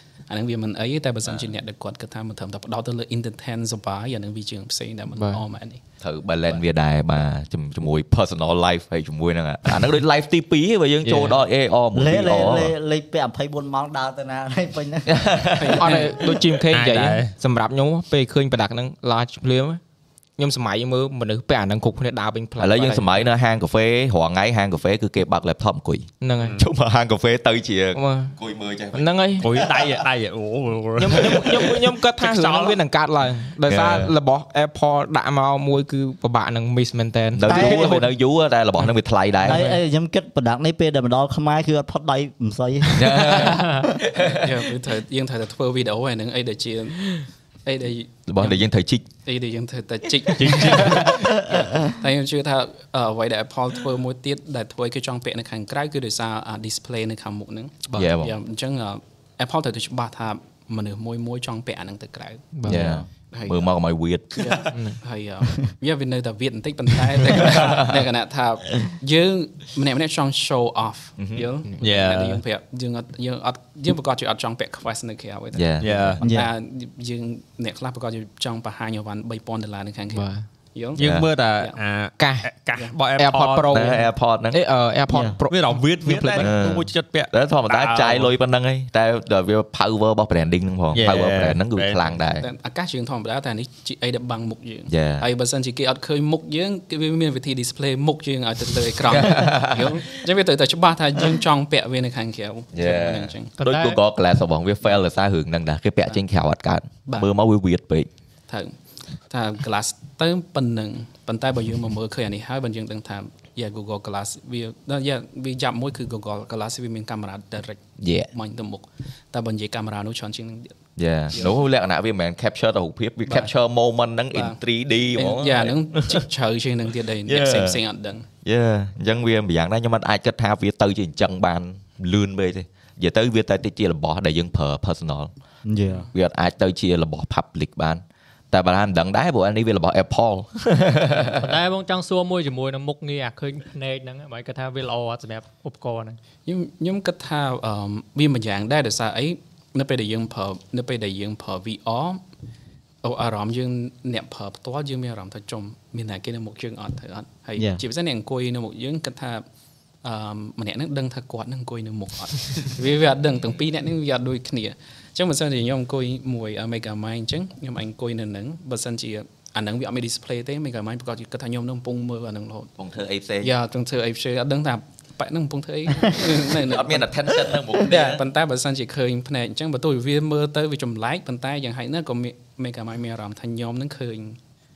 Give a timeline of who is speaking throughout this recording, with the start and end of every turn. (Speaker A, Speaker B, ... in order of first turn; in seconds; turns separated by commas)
Speaker A: 0.3-5.8, Speaker B: 5.2-5.4, Speaker C: 6.0-12.7, Speaker D: 11.9-15.3, Speaker C: 15.1-16.0, Speaker A: 15.6-16.2, Speaker B: 15.8-19.8, Speaker E: 16.7-17.3, Speaker B: 20.4-23.2, Speaker C: 22.6-30.0, Speaker B: 26.2-26.6, Speaker E: 26.4-26.6, Speaker B: 27.9-28.4, Speaker B: 28.9-29.5, Speaker E: 29.4-32.8, Speaker B: 31.0-38.1, Speaker C: 31.1-31.6, Speaker C: 33.6-34.1, Speaker C: 37.3-39.7, Speaker D: 37.4-38.0, Speaker D: 39.4-43.8, Speaker C: 42.9-44.5, Speaker A: 44.1-48.6, Speaker C: 48.3-49.0, Speaker A: 49.2-62.8, Speaker E: 50.4-51.2, Speaker C: 50.6-51.0, Speaker C: 57.9-58.3, Speaker B: 62.5-63.0, Speaker C: 62.7-64.4, Speaker A: 63.3-63.7, Speaker A: 64.3-81.0, Speaker B: 64.7-65.0, Speaker C: 67.3-68.0, Speaker C: 71.2-71.5, Speaker E: 71.8-72.4, Speaker C: 75.5-76.2, Speaker E: 75.8-76.2, Speaker D: 76.2-76.5, Speaker B: 80.1-80.5, Speaker E: 81.0-83.9, Speaker C: 81.0-81.3, Speaker B: 82.2-82.5, Speaker B: 83.2-86.5, Speaker C: 83.7-84.6, Speaker D: 85.1-85.3, Speaker E: 85.5-88.3, Speaker C: 86.4-92.5, Speaker E: 90.9-92.1, Speaker A: 92.3-103.5, Speaker C: 94.9-95.2, Speaker C: 99.1-100.0, Speaker C: 102.7-108.1, Speaker F: 103.6-104.0, Speaker A: 108.5-108.7, Speaker A: 109.3-120.7, Speaker C: 118.0-118.3, Speaker C: 121.0-126.2, Speaker A: 121.3-121.6, Speaker A: 123.2-123.5, Speaker A: 124.3-124.6, Speaker A: 125.2-128.3, Speaker C: 127.3-127.8, Speaker C: 128.4-135.3, Speaker D: 135.6-136.1, Speaker C: 136.1-141.6, Speaker F: 141.3-146.2, Speaker A: 146.4-152.2, Speaker A: 153.0-159.4, Speaker D: 157.6-157.8, Speaker A: 160.0-172.7, Speaker C: 172.8-173.5, Speaker A: 173.4-177.1, Speaker C: 176.1-178.2, Speaker A: 177.8-184.4